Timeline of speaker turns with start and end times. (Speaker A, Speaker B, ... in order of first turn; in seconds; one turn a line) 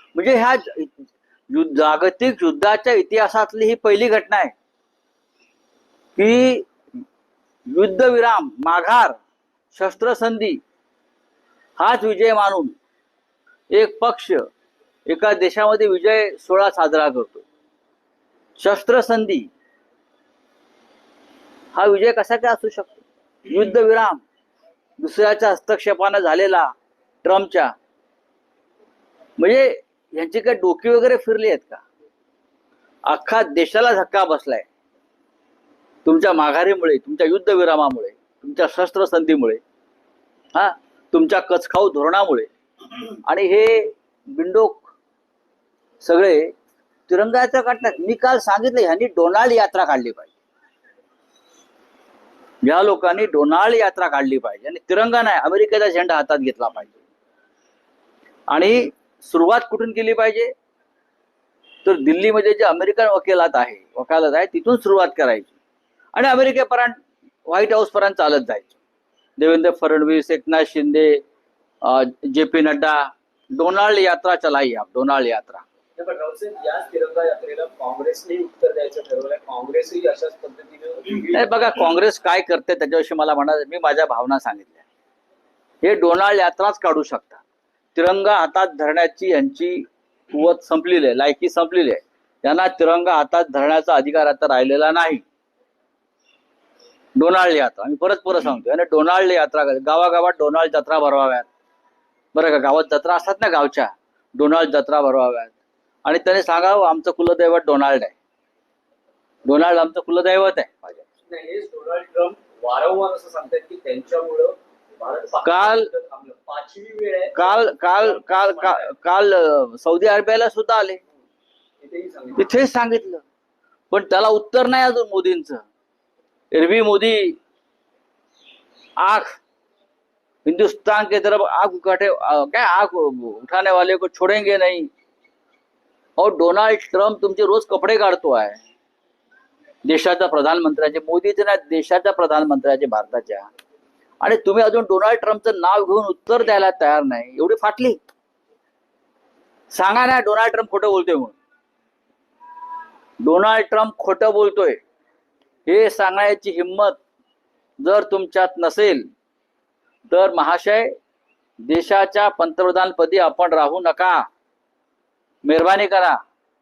Speaker A: 0.1-1.0
Speaker A: 1.5-4.5
Speaker A: 6.2-6.7
Speaker A: 7.7-9.2
Speaker A: 9.7-10.6
Speaker A: 11.8-12.8
Speaker A: 13.7-14.4
Speaker A: 15.1-17.4
Speaker A: 18.6-19.5
Speaker A: 21.8-24.2
Speaker A: 25.0-27.7
Speaker A: 29.4-31.8
Speaker A: 33.1-34.7
Speaker A: 36.0-39.6
Speaker A: 40.5-42.5
Speaker A: 43.2-44.9
Speaker A: 46.0-46.5
Speaker A: 47.1-50.3
Speaker A: 52.6-57.0
Speaker A: 58.5-60.5
Speaker A: 61.8-65.5
Speaker A: 66.1-68.8
Speaker A: 69.4-71.2
Speaker A: 71.8-75.6
Speaker B: 76.0-81.5
Speaker A: 81.3-84.8
Speaker A: 85.8-87.4
Speaker A: 88.0-95.2
Speaker A: 97.2-101.5
Speaker A: 102.3-108.2
Speaker A: 109.5-111.0
Speaker B: 111.2-119.0
Speaker A: 115.4-115.9
Speaker A: 117.3-121.0
Speaker B: 121.8-122.6
Speaker A: 122.4-123.2
Speaker A: 123.9-125.6
Speaker A: 126.5-127.4
Speaker A: 129.0-129.4
Speaker A: 130.4-134.9
Speaker A: 136.2-138.6
Speaker A: 139.8-143.5
Speaker A: 144.2-148.0
Speaker A: 149.7-151.4
Speaker A: 153.2-154.8
Speaker A: 155.7-157.0
Speaker A: 157.8-159.1
Speaker A: 160.1-160.9
Speaker A: 161.6-164.3
Speaker A: 165.4-166.2